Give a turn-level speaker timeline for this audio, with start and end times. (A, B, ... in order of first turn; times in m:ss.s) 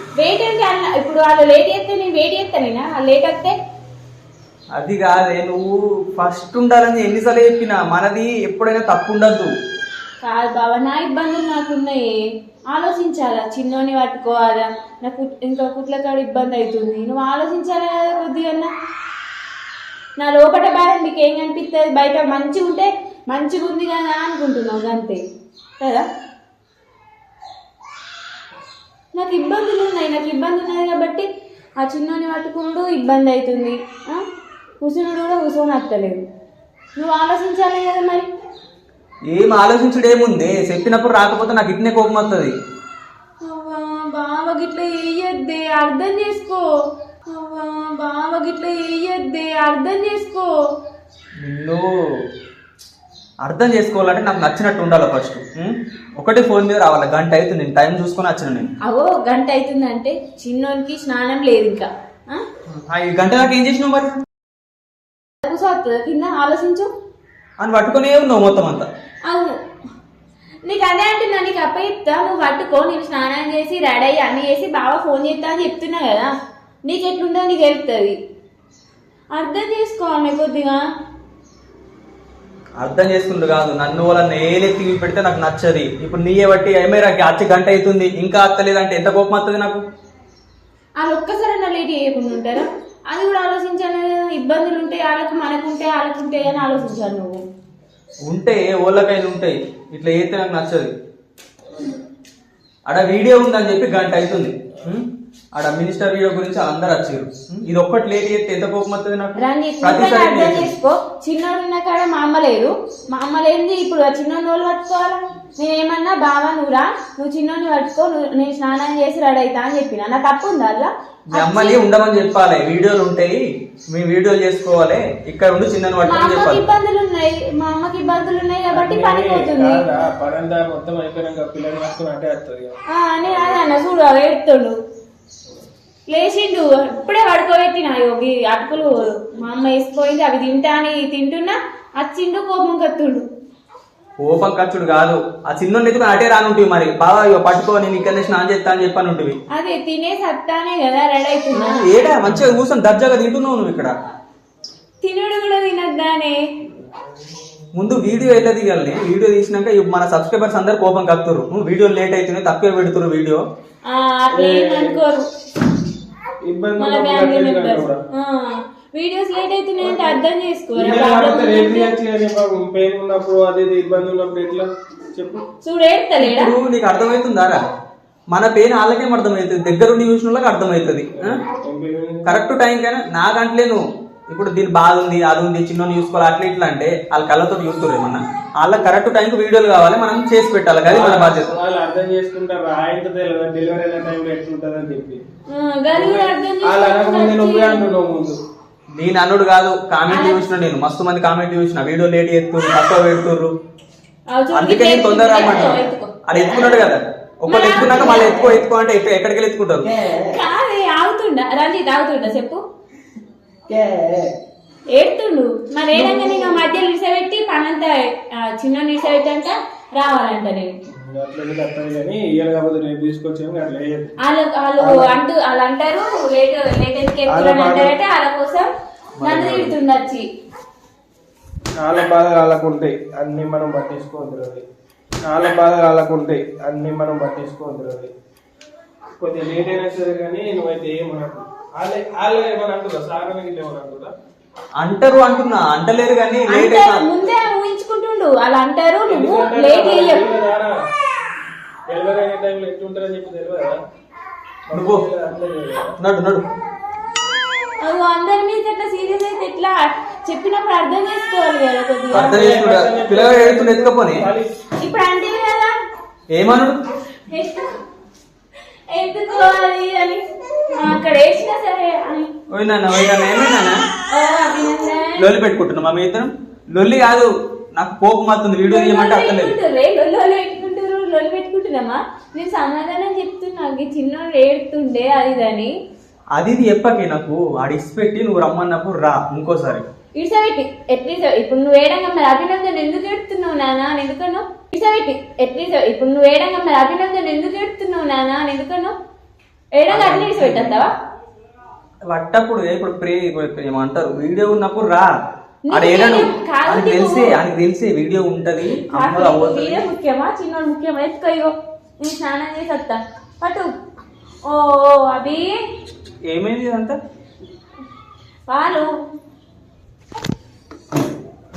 0:00.2-0:03.5 A
0:04.8-0:09.5 B
0:10.2-0:12.1 A
0:12.7-0:18.7 A
0:20.2-0:25.2 A
0:25.8-0:26.0 A
0:29.1-0:31.3 A
0:31.8-0:34.2 A
0:34.8-0:36.2 A
0:37.0-0:38.3 A
0:39.3-0:42.5 B
0:43.4-0:46.6 A
0:47.3-0:50.5 A
0:51.4-0:51.9 B
0:53.4-0:58.7 B
0:58.8-1:02.4 A
1:02.7-1:04.2 B
1:05.4-1:06.9 A
1:07.6-1:08.9 B
1:09.3-1:09.6 A
1:10.6-1:16.3 A
1:16.8-1:18.2 A
1:19.3-1:20.8 A
1:22.8-1:29.8 B
1:31.0-1:37.4 A
1:38.3-1:40.9 B
1:42.9-1:50.7 B
1:49.4-2:01.8 A
2:01.3-2:06.6 B
2:06.0-2:09.8 A
2:08.7-2:12.8 C
2:12.9-2:14.8 A
2:16.1-2:23.2 A
2:24.2-2:29.4 B
2:29.5-2:31.9 A
2:31.6-2:33.9 B
2:35.0-2:36.4 A
2:37.8-2:43.4 B
2:43.9-2:45.2 A
2:44.3-2:45.0 C
2:46.5-2:48.0 C
2:46.8-2:52.0 A
2:49.8-2:50.2 C
2:50.8-2:55.4 C
2:55.6-2:56.5 A
2:56.2-2:57.6 B
2:58.3-3:01.4 B
3:01.2-3:02.3 C
3:02.3-3:11.5 B
3:10.9-3:15.2 C
3:15.5-3:17.8 A
3:15.9-3:18.4 C
3:19.0-3:23.5 B
3:20.1-3:20.4 A
3:24.3-3:26.2 A
3:24.5-3:29.9 B
3:27.5-3:28.6 A
3:30.2-3:32.6 A
3:33.7-3:34.3 C
3:34.9-3:40.8 A
3:40.9-3:44.1 C
3:44.2-3:48.7 A
3:44.8-3:45.1 C
3:47.3-3:48.0 C
3:49.2-3:49.7 B
3:49.2-3:50.2 A
3:51.8-3:54.6 C
3:55.2-3:58.1 C
3:59.2-4:04.1 C
4:04.8-4:07.1 B
4:06.5-4:10.3 A
4:09.1-4:10.7 C
4:11.9-4:13.8 C
4:14.7-4:16.0 C
4:14.7-4:15.0 B
4:16.0-4:16.4 B
4:17.8-4:22.4 A
4:22.1-4:24.3 B
4:22.2-4:24.5 C
4:24.8-4:25.7 A
4:26.3-4:26.8 B
4:27.3-4:27.7 A
4:28.9-4:30.2 A
4:30.7-4:32.3 A
4:32.5-4:33.8 B
4:34.1-4:35.3 A
4:35.2-4:39.6 B
4:38.6-4:45.7 A
4:46.4-4:49.8 B
4:50.2-4:58.9 A
4:59.8-5:00.9 A
4:59.9-5:00.8 B
5:02.1-5:05.1 B
5:05.7-5:07.4 A
5:05.7-5:09.8 B
5:08.9-5:13.7 A
5:14.4-5:15.6 A
5:16.3-5:17.0 B
5:18.5-5:18.9 A